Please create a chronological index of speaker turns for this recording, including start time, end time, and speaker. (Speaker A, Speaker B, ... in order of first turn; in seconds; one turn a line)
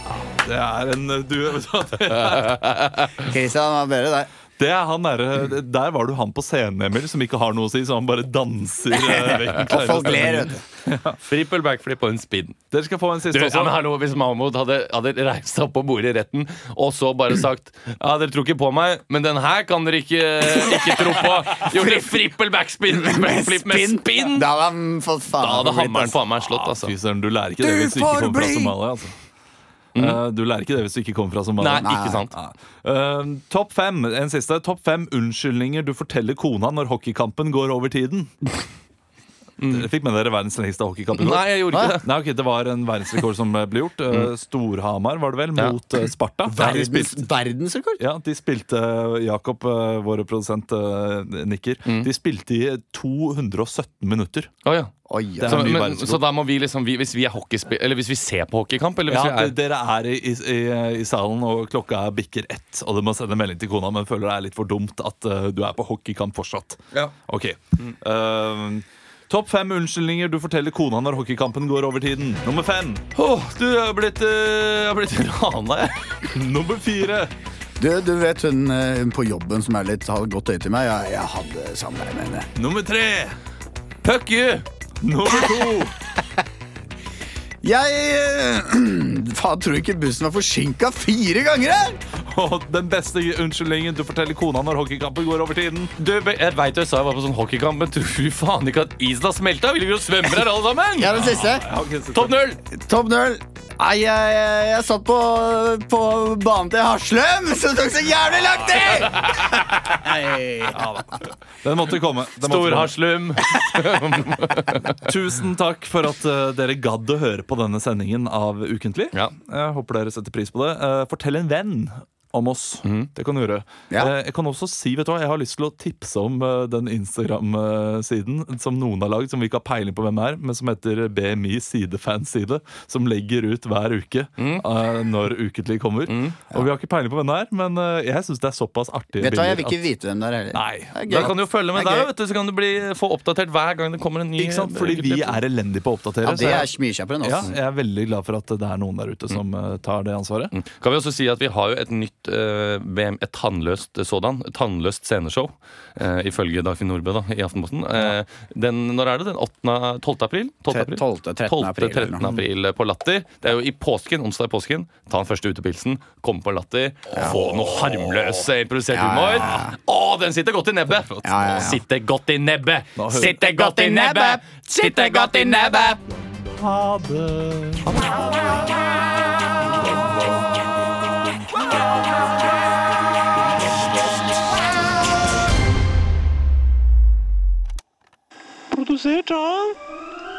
Speaker A: 0.2-2.8
Speaker B: 2.6-3.1
Speaker C: 3.2-4.3
Speaker A: 4.6-11.2
Speaker C: 9.1-10.6
Speaker B: 11.2-12.6
Speaker A: 12.7-13.8
Speaker B: 13.3-24.5
Speaker C: 21.6-22.1
Speaker C: 22.9-26.2
Speaker B: 25.4-26.9
Speaker A: 26.4-29.1
Speaker C: 27.6-28.8
Speaker A: 30.0-38.3
Speaker B: 31.6-32.3
Speaker C: 31.8-32.2
Speaker B: 39.6-39.9
Speaker A: 39.7-47.3
Speaker B: 41.1-42.1
Speaker C: 46.5-48.0
Speaker A: 48.0-54.5
Speaker B: 54.6-54.9
Speaker C: 55.1-55.8
Speaker A: 55.4-56.2
Speaker B: 55.5-59.6
Speaker A: 59.1-73.0
Speaker B: 73.2-76.0
Speaker A: 76.3-77.3
Speaker C: 77.8-82.5
Speaker A: 82.6-83.4
Speaker B: 84.0-84.7
Speaker A: 85.0-85.9
Speaker C: 87.6-92.0
Speaker A: 92.2-95.9
Speaker B: 96.0-101.2
Speaker C: 101.0-101.7
Speaker A: 101.1-102.4
Speaker B: 102.1-102.6
Speaker C: 102.7-110.8
Speaker A: 108.4-109.1
Speaker B: 109.1-109.7
Speaker A: 110.7-112.9
Speaker B: 112.4-115.0
Speaker A: 115.0-139.8
Speaker B: 134.4-134.7
Speaker B: 136.1-136.4
Speaker C: 139.2-142.1
Speaker A: 140.5-141.3
Speaker B: 141.1-145.4
Speaker A: 144.4-150.5
Speaker C: 146.2-147.5
Speaker B: 150.5-176.0
Speaker C: 160.7-162.2
Speaker C: 168.9-169.8
Speaker A: 169.4-169.7
Speaker C: 171.2-171.8
Speaker A: 173.0-173.3
Speaker C: 173.1-176.0
Speaker A: 176.5-178.7
Speaker A: 179.8-180.5
Speaker B: 188.7-189.8